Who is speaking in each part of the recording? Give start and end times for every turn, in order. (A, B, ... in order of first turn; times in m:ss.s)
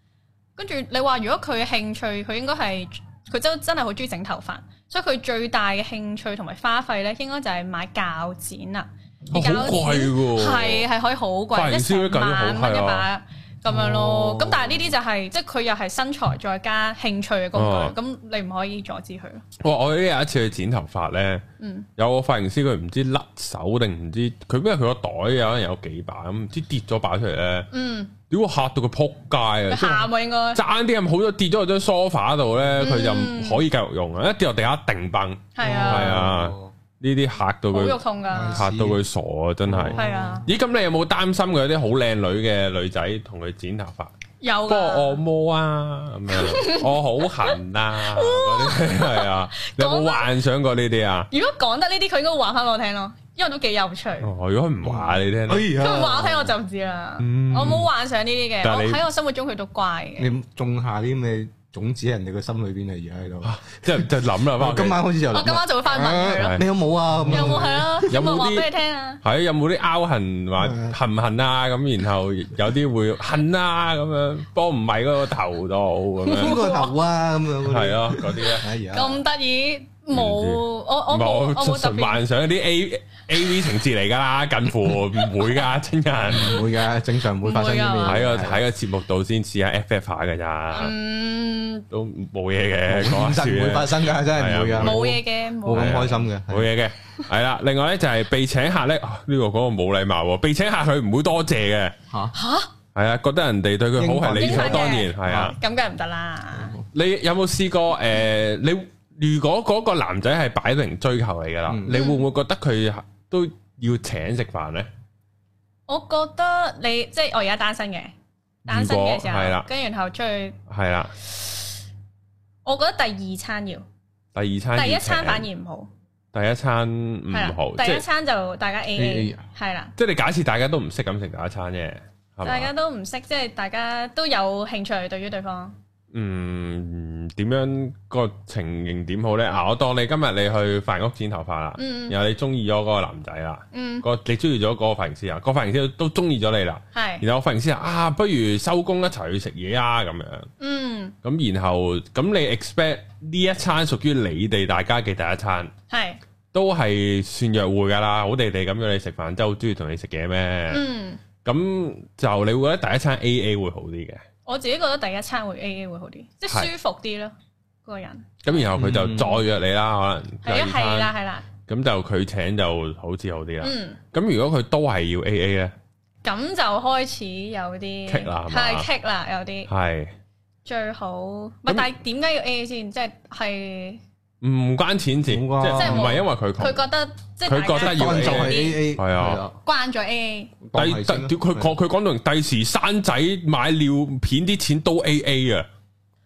0:00.6-0:19.4 A
0:09.3-0:10.9 B
0:11.5-0:13.1 B
0:13.7-0:14.9 C
0:17.6-0:18.0 B
0:19.6-0:21.4 B
0:21.6-0:21.9 A
0:22.0-0:27.7 B
0:27.7-0:28.1 A
0:28.3-0:44.1 B
0:29.7-0:30.6 A
0:32.8-0:33.6 A
0:35.6-0:36.3 A
0:35.6-0:36.7 C
0:37.7-0:38.6 A
0:38.3-0:39.0 C
0:39.6-0:40.5 C
0:39.9-0:40.5 A
0:44.4-0:45.2 A
0:44.7-0:51.3 B
0:46.3-0:50.3 A
0:51.3-0:54.3 A
0:54.2-0:55.7 B
0:54.8-0:56.5 C
0:55.7-1:00.3 A
0:57.2-0:57.9 B
0:58.6-0:59.0 B
1:00.2-1:08.1 C
1:03.4-1:05.0 B
1:05.3-1:06.7 A
1:06.3-1:06.6 B
1:07.3-1:09.2 A
1:08.1-1:08.7 B
1:09.2-1:16.6 B
1:10.6-1:11.0 C
1:16.2-1:17.0 A
1:16.3-1:19.2 C
1:17.6-1:18.6 B
1:18.9-1:22.2 A
1:20.1-1:26.6 B
1:26.2-1:28.6 C
1:27.4-1:28.4 A
1:28.0-1:30.9 B
1:30.7-1:31.9 A
1:31.9-1:35.0 B
1:32.9-1:36.7 C
1:34.8-1:36.1 A
1:35.7-1:42.0 B
1:42.1-1:42.3 C
1:42.3-1:42.7 A
1:42.9-1:45.6 B
1:44.0-1:45.5 C
1:44.3-1:46.8 A
1:46.9-1:54.9 B
1:51.7-1:52.0 C
1:51.9-1:52.3 A
1:55.9-1:58.1 A
1:58.6-2:00.6 A
1:58.7-1:59.7 B
2:00.7-2:01.1 B
2:02.6-2:03.8 A
2:04.3-2:05.4 B
2:04.8-2:05.9 A
2:06.3-2:08.0 B
2:07.3-2:09.9 A
2:08.9-2:09.4 C
2:10.0-2:12.7 B
2:12.4-2:15.8 A
2:16.1-2:30.5 B
2:21.8-2:22.2 A
2:23.7-2:24.0 A
2:26.9-2:27.2 A
2:30.6-2:31.1 A
2:31.2-2:35.7 B
2:35.9-2:36.2 A
2:36.5-2:40.8 B
2:40.7-2:41.2 A
2:41.4-2:44.2 B
2:44.4-2:47.3 A
2:47.8-2:48.4 A
2:48.4-2:51.1 B
2:48.8-2:49.4 C
2:50.4-2:51.4 A
2:51.6-2:55.7 B
2:53.6-2:54.0 A
2:56.2-2:59.7 A
2:58.1-2:58.9 B
2:59.7-3:00.1 B
3:00.6-3:04.0 A
3:01.7-3:01.9 B
3:04.4-3:06.8 B
3:05.3-3:06.2 C
3:05.7-3:08.9 A
3:07.4-3:09.4 B
3:07.7-3:09.6 C
3:09.6-3:10.6 A
3:10.6-3:11.7 C
3:10.7-3:15.7 B